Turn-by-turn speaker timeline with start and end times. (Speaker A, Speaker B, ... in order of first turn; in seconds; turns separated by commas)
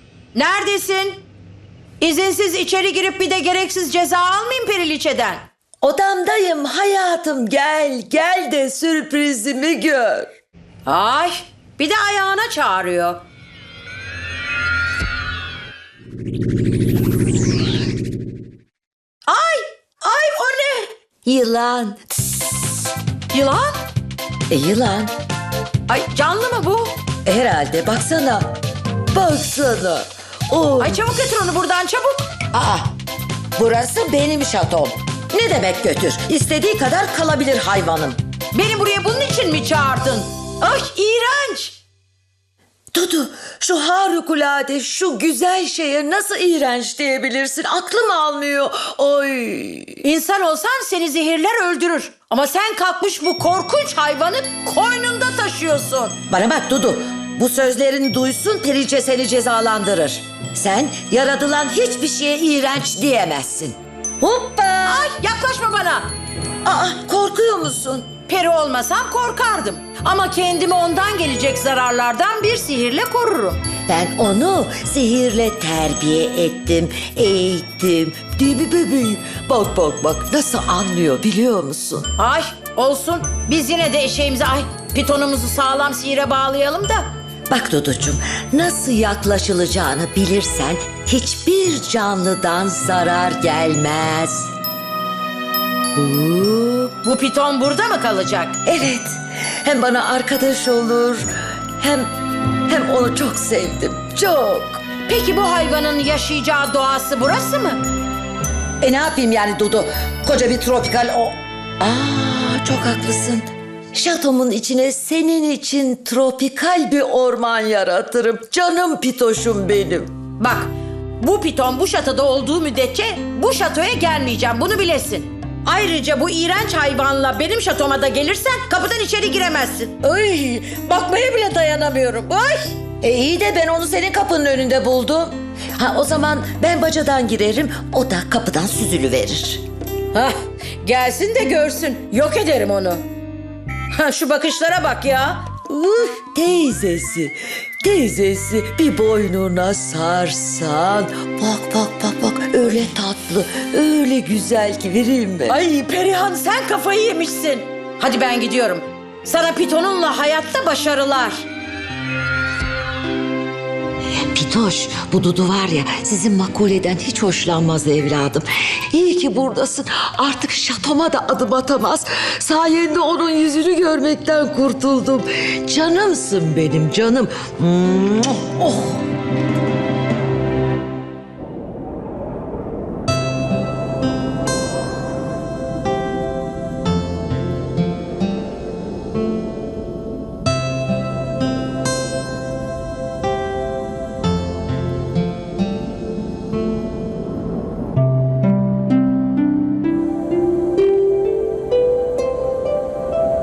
Speaker A: 0.3-1.2, Speaker A: 2.0-5.5, Speaker B: 5.8-10.3, Speaker A: 10.9-13.2, Speaker A: 19.3-20.9, Speaker B: 21.2-22.4, Speaker A: 23.3-23.7, Speaker B: 24.5-25.1, Speaker A: 25.9-27.0, Speaker B: 27.2-28.6, Speaker B: 29.1-31.0, Speaker A: 30.8-32.3, Speaker B: 32.5-32.9, Speaker B: 33.6-38.2, Speaker A: 38.5-41.8, Speaker B: 42.9-50.0, Speaker A: 50.0-56.2, Speaker B: 56.3-65.1, Speaker A: 64.8-66.1, Speaker B: 66.6-68.1, Speaker A: 68.3-73.7, Speaker B: 73.9-82.1, Speaker A: 82.2-87.1, Speaker B: 87.5-94.5, Speaker B: 96.0-96.9, Speaker A: 97.0-98.6, Speaker B: 98.7-102.1, Speaker B: 102.7-104.8, Speaker A: 105.1-107.8, Speaker B: 108.8-120.1, Speaker A: 120.4-132.8, Speaker B: 133.0-139.6, Speaker A: 140.1-143.1, Speaker A: 143.9-145.7, Speaker B: 145.7-155.6, Speaker A: 155.5-161.4, Speaker B: 164.3-179.0